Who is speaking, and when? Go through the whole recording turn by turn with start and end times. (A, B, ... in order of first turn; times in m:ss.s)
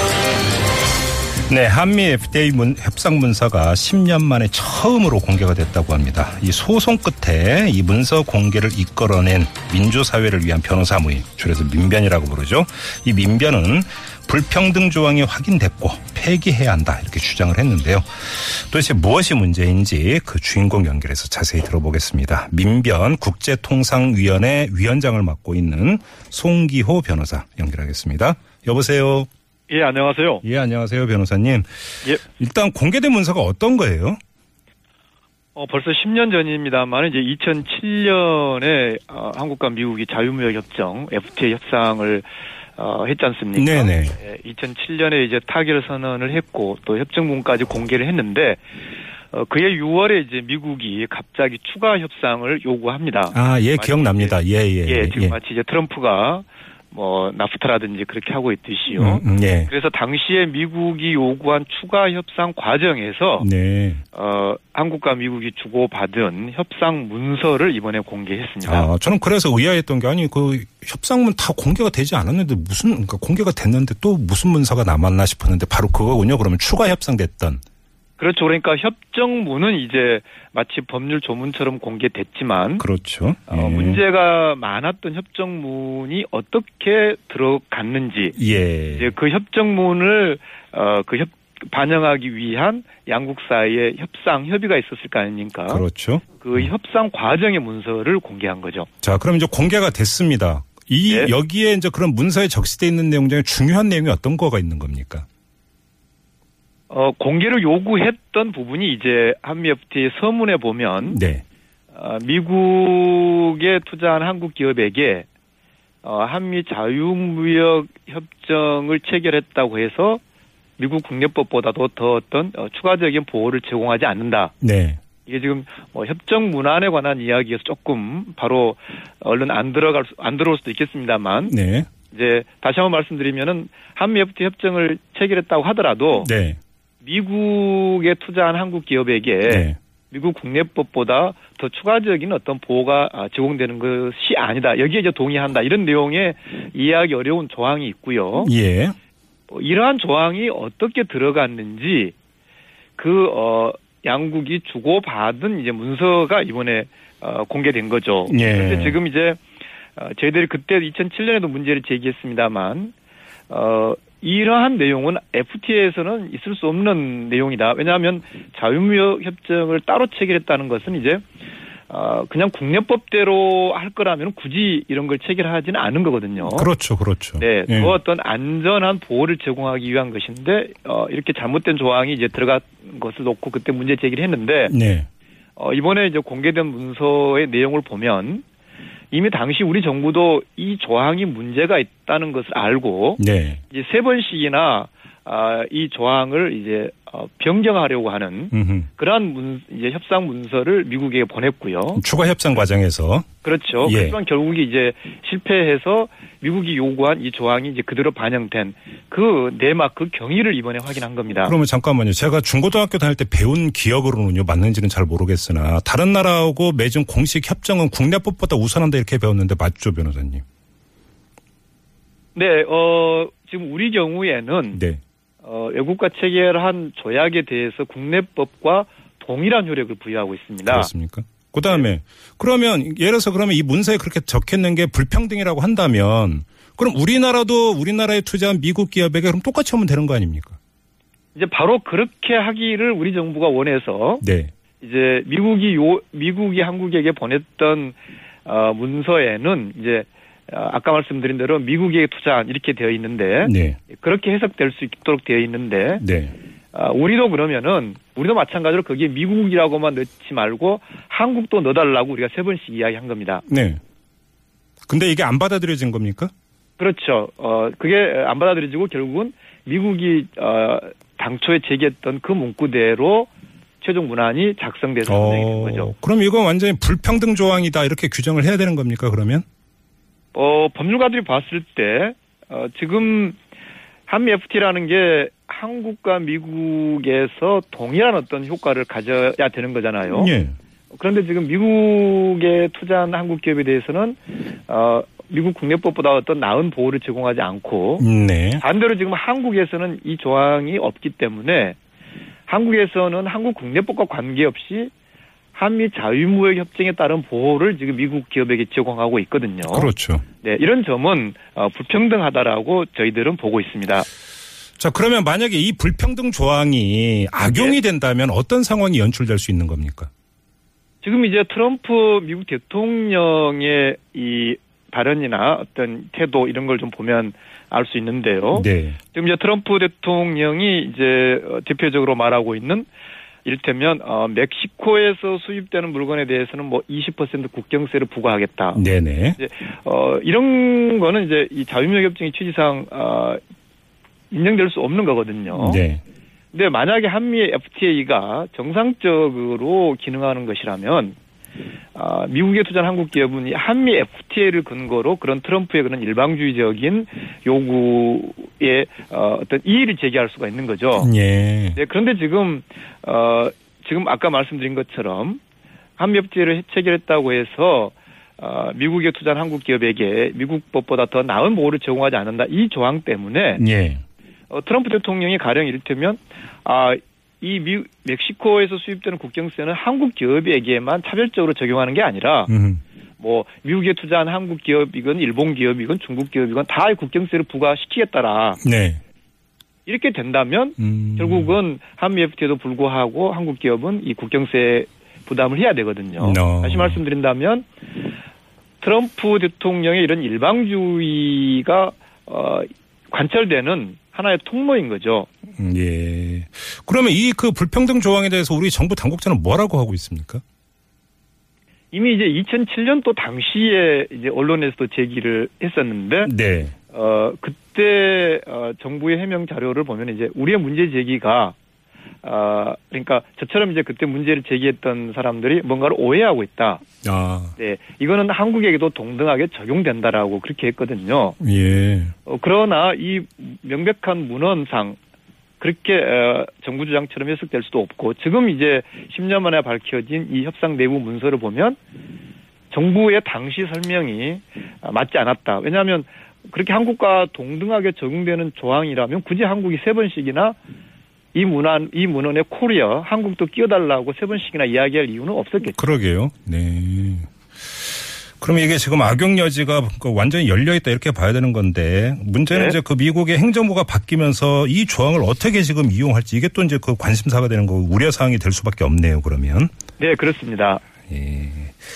0:01.5-0:29.3 A
0:29.7-0:30.4 B
0:30.4-0:31.7 A
0:32.2-0:34.2 A
0:35.6-0:48.6 B
0:43.6-0:44.2 A
0:49.3-1:03.5 B
0:53.3-0:55.4 A
0:58.9-0:59.7 A
1:03.4-1:04.0 A
1:04.1-1:08.9 B
1:08.6-1:17.6 A
1:18.2-1:22.8 B
1:22.8-1:24.0 A
1:23.5-1:28.4 B
1:28.4-1:29.1 A
1:29.0-1:35.8 B
1:35.7-1:36.7 A
1:36.4-1:38.9 B
1:39.0-1:45.3 A
1:41.1-1:41.3 B
1:46.9-1:51.2 B
1:51.1-1:51.4 A
1:51.9-1:55.3 B
1:56.0-2:00.2 B
2:00.8-2:04.5 B
2:04.6-2:05.0 A
2:05.2-2:11.5 B
2:11.4-2:11.9 A
2:12.1-2:16.3 B
2:16.2-2:16.6 A
2:17.0-2:28.5 B
2:19.4-2:19.8 A
2:28.4-2:29.0 A
2:29.5-2:32.2 B
2:33.0-2:39.4 B
2:38.3-2:39.0 A
2:40.0-2:42.9 B
2:43.5-2:51.2 B
2:51.9-2:56.7 B
2:56.4-2:58.0 A
2:57.4-3:04.7 B
3:04.7-3:05.1 A
3:05.6-3:08.4 B
3:09.1-3:22.0 B
3:13.2-3:13.6 A
3:18.5-3:18.9 A
3:22.0-3:23.3 A
3:23.4-3:31.6 B
3:23.8-3:24.2 A
3:31.4-3:40.4 A
3:42.4-3:44.8 B
3:44.7-3:45.0 A
3:45.4-3:50.9 B
3:50.7-4:00.6 A
4:01.4-4:04.2 B
4:04.2-4:04.5 A
4:04.8-4:16.0 B
4:13.4-4:13.8 A
4:16.0-4:16.3 A
4:16.7-4:23.4 B
4:23.5-4:23.8 A
4:24.9-4:26.3 A
4:26.8-4:33.3 B
4:33.8-4:35.9 B
4:35.1-4:39.4 A
4:40.3-4:43.4 B
4:44.1-4:50.3 B
4:50.1-4:50.6 A
4:50.9-4:58.1 B
4:58.0-4:58.6 A
4:58.6-5:01.8 B
5:02.5-5:04.9 B
5:05.6-5:14.1 B
5:09.7-5:10.2 A
5:14.8-5:20.1 A
5:17.4-5:17.8 B
5:21.0-5:32.9 B
5:28.5-5:29.0 A
5:33.4-5:38.8 B
5:38.7-5:39.4 A
5:39.4-5:43.4 B
5:44.3-5:45.8 B
5:45.5-5:46.0 A
5:46.5-5:51.2 B
5:51.9-6:01.1 B
6:01.0-6:01.8 A
6:01.8-6:05.4 B
6:06.0-6:13.6 B
6:13.6-6:14.0 A
6:14.5-6:22.5 B
6:22.5-6:22.8 A
6:23.2-6:28.6 B
6:28.6-6:29.0 A
6:29.9-6:37.7 B
6:30.8-6:31.6 A
6:36.2-6:37.0 A
6:38.8-6:45.3 B
6:45.6-6:50.4 A
6:51.9-6:56.3 B
6:56.2-6:56.8 A
6:56.9-7:01.6 B
7:02.2-7:06.8 B
7:07.0-7:07.6 A
7:07.6-7:11.4 B
7:11.4-7:12.1 A
7:12.3-7:15.0 B
7:15.6-7:21.8 B
7:22.7-7:30.6 B
7:31.3-7:35.8 B
7:35.8-7:37.3 A
7:38.4-7:49.7 A
7:42.5-7:42.8 B
7:50.0-7:50.8 B
7:51.1-7:51.8 A